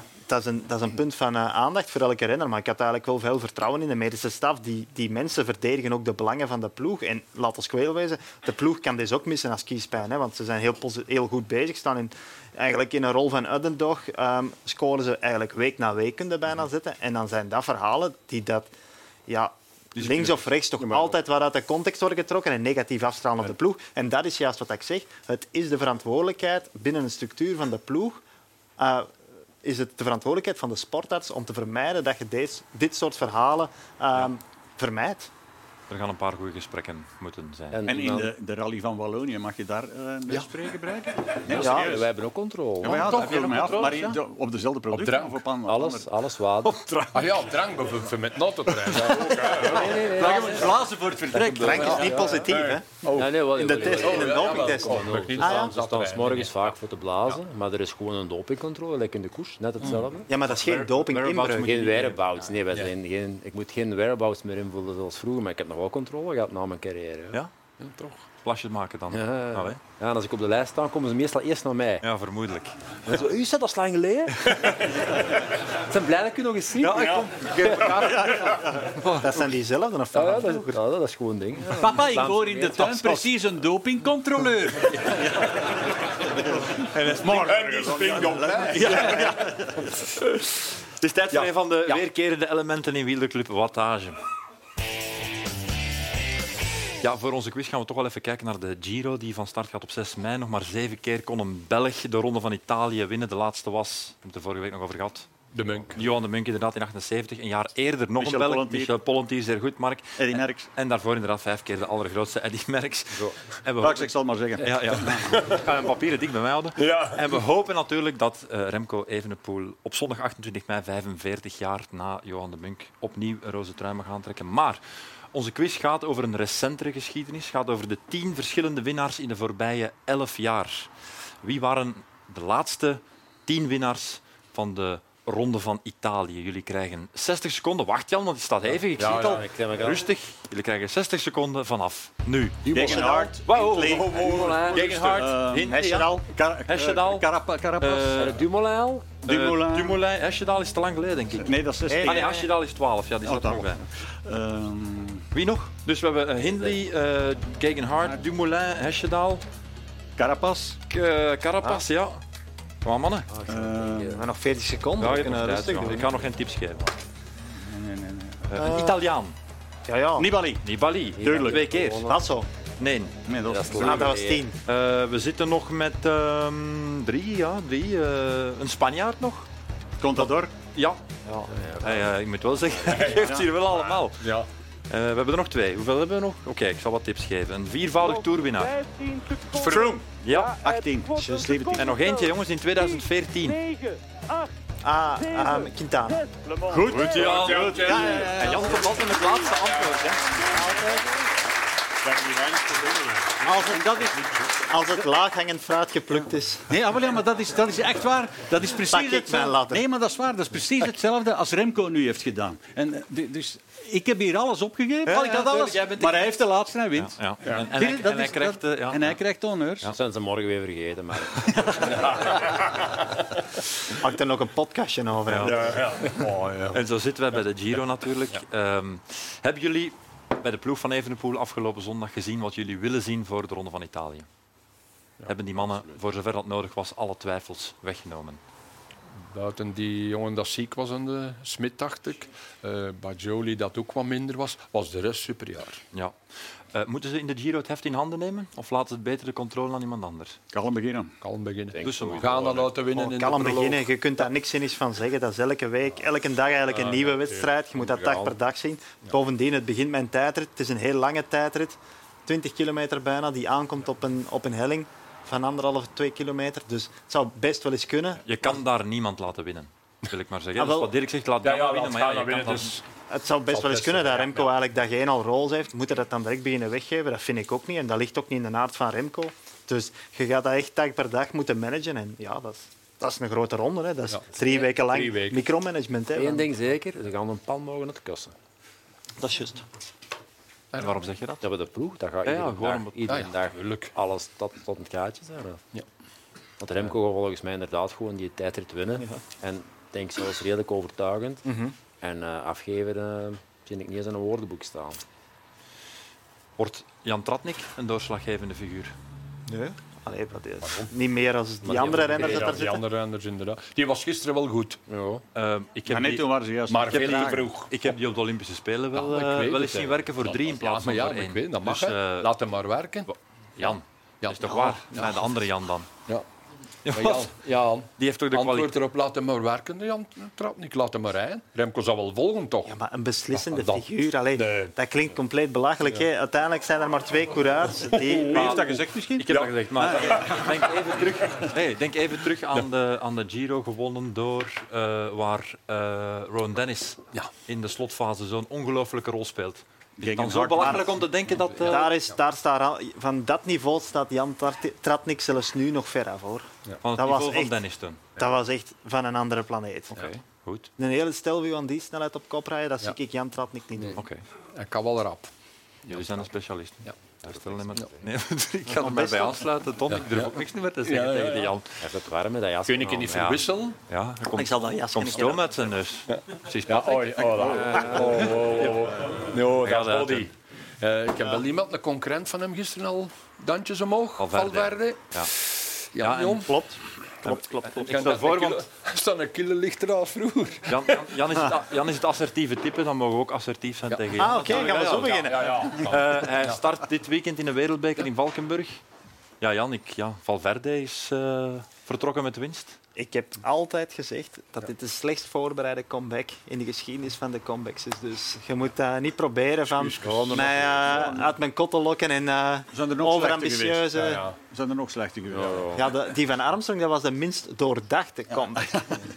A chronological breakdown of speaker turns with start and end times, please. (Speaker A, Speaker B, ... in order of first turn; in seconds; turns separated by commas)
Speaker A: 0.3-18.7, Speaker A: 19.3-28.2, Speaker B: 19.9-20.5, Speaker C: 20.8-21.1, Speaker A: 28.8-29.1, Speaker A: 29.6-35.3, Speaker B: 35.9-37.8, Speaker C: 37.7-38.3, Speaker D: 37.9-42.1, Speaker C: 41.5-43.2, Speaker A: 41.5-42.0, Speaker D: 42.8-46.1, Speaker E: 42.9-44.1, Speaker B: 43.1-43.5, Speaker E: 44.9-45.4, Speaker C: 45.6-46.8, Speaker B: 46.9-47.2, Speaker E: 47.1-50.6, Speaker D: 49.3-52.3, Speaker C: 49.5-50.7, Speaker A: 51.4-55.7, Speaker E: 51.4-56.7, Speaker C: 53.1-60.3, Speaker A: 60.3-61.8, Speaker B: 60.4-62.5, Speaker C: 61.6-67.4, Speaker E: 67.8-68.2, Speaker B: 68.4-69.8, Speaker C: 69.1-72.0, Speaker B: 72.0-72.7, Speaker C: 73.1-74.9, Speaker C: 75.8-78.2, Speaker B: 76.8-78.2, Speaker E: 77.0-78.1, Speaker D: 77.9-78.9, Speaker A: 78.9-80.8, Speaker C: 80.1-83.3, Speaker D: 81.7-89.8, Speaker B: 87.0-87.6, Speaker E: 87.2-89.6, Speaker B: 90.2-94.2, Speaker E: 91.3-92.0, Speaker B: 97.0-105.3, Speaker E: 105.5-106.0, Speaker B: 105.9-124.8, Speaker D: 108.2-109.0, Speaker D: 110.2-110.7, Speaker D: 113.8-115.4, Speaker E: 115.3-115.6, Speaker E: 116.8-117.3, Speaker B: 125.3-130.9, Speaker B: 131.4-147.3, Speaker E: 139.0-139.5, Speaker C: 139.0-140.0, Speaker A: 142.7-144.8, Speaker D: 142.7-148.3, Speaker E: 143.8-145.3, Speaker A: 145.6-146.2, Speaker B: 147.8-148.4, Speaker C: 148.1-149.1, Speaker D: 149.2-150.0, Speaker B: 149.2-153.9, Speaker D: 151.4-152.5, Speaker A: 151.9-152.5, Speaker D: 153.2-155.3, Speaker B: 155.3-159.4, Speaker D: 160.2-160.8, Speaker B: 160.9-162.2, Speaker B: 162.8-163.3, Speaker C: 163.3-164.2, Speaker D: 163.5-164.2, Speaker A: 164.1-166.1, Speaker B: 165.0-166.9, Speaker D: 167.4-168.6, Speaker B: 168.5-169.3, Speaker A: 168.6-169.0, Speaker A: 169.9-170.3, Speaker D: 170.2-170.7, Speaker B: 170.6-172.1, Speaker C: 171.2-172.2, Speaker D: 171.2-171.7, Speaker A: 172.1-172.5, Speaker B: 172.8-173.1, Speaker D: 173.2-174.2, Speaker C: 173.4-174.4, Speaker A: 173.7-174.6, Speaker B: 174.6-179.5, Speaker D: 180.0-180.5, Speaker B: 180.7-181.0, Speaker C: 181.5-182.1, Speaker B: 181.8-184.3, Speaker C: 182.9-183.2, Speaker D: 183.1-183.5, Speaker E: 184.2-184.5, Speaker B: 184.9-188.9, Speaker E: 189.5-190.0, Speaker D: 189.5-192.0, Speaker B: 190.2-190.6, Speaker A: 191.2-191.6, Speaker B: 191.7-193.7, Speaker A: 194.8-196.3, Speaker D: 196.6-199.0, Speaker B: 196.9-200.5, Speaker E: 197.1-198.2, Speaker E: 202.0-203.5, Speaker D: 203.4-204.5, Speaker A: 204.7-206.7, Speaker D: 206.7-219.9, Speaker A: 208.9-209.8, Speaker B: 215.1-216.3, Speaker B: 217.0-219.2, Speaker C: 219.9-221.5, Speaker E: 221.9-222.9, Speaker A: 223.9-226.3, Speaker B: 225.3-225.8, Speaker E: 225.4-226.8, Speaker B: 226.7-234.3, Speaker B: 235.2-238.4, Speaker E: 239.1-245.8, Speaker B: 246.7-250.4, Speaker D: 250.5-251.1, Speaker E: 251.2-253.9, Speaker C: 251.7-252.3, Speaker B: 251.8-252.7, Speaker A: 252.9-268.5, Speaker E: 256.7-257.5, Speaker C: 257.8-258.3, Speaker B: 268.2-272.8, Speaker A: 270.6-270.9, Speaker E: 271.4-272.8, Speaker A: 273.1-286.5, Speaker E: 273.5-274.5, Speaker E: 284.1-285.5, Speaker C: 286.1-288.3, Speaker A: 289.2-289.6, Speaker E: 290.7-291.0, Speaker B: 290.8-291.4, Speaker C: 291.4-295.6, Speaker B: 292.2-293.3, Speaker E: 293.1-293.9, Speaker C: 296.6-301.4, Speaker A: 301.4-301.7, Speaker C: 302.0-305.0, Speaker B: 306.6-308.9, Speaker A: 309.5-312.8, Speaker C: 311.6-312.6, Speaker E: 311.9-314.8, Speaker C: 314.9-315.2, Speaker B: 315.3-316.3, Speaker D: 315.9-317.4, Speaker E: 316.7-317.8, Speaker B: 316.9-322.3, Speaker E: 318.9-325.3, Speaker B: 323.1-325.9, Speaker B: 326.8-327.4, Speaker E: 326.9-332.8, Speaker B: 328.0-328.8, Speaker A: 332.6-338.8, Speaker E: 333.3-334.7, Speaker E: 337.9-338.6, Speaker D: 338.3-340.2, Speaker B: 338.3-351.9, Speaker E: 339.3-341.5, Speaker D: 350.0-351.0, Speaker A: 350.6-350.9, Speaker E: 351.3-351.9, Speaker A: 351.6-357.5, Speaker B: 356.8-358.0, Speaker A: 358.1-360.1, Speaker B: 359.9-360.7, Speaker A: 360.8-364.0, Speaker B: 363.9-364.2, Speaker E: 364.5-365.3, Speaker E: 365.8-366.2, Speaker B: 365.9-371.7, Speaker C: 367.3-368.0, Speaker A: 368.7-369.4, Speaker E: 369.9-371.6, Speaker C: 371.8-373.4, Speaker E: 372.6-373.8, Speaker B: 373.1-378.8, Speaker A: 374.3-375.7, Speaker E: 376.1-386.6, Speaker D: 377.2-377.8, Speaker C: 377.5-378.3, Speaker B: 379.4-380.3, Speaker B: 384.2-385.3, Speaker B: 386.0-386.6, Speaker A: 386.4-388.0, Speaker B: 387.2-388.6, Speaker E: 387.8-391.2, Speaker B: 390.7-398.8, Speaker E: 393.9-396.6, Speaker A: 394.1-395.8, Speaker B: 399.4-402.8, Speaker A: 402.9-414.3, Speaker E: 409.6-411.2, Speaker C: 410.0-411.2, Speaker D: 412.7-415.9, Speaker E: 413.9-414.3, Speaker C: 415.3-415.9, Speaker A: 415.7-418.9, Speaker D: 418.6-419.0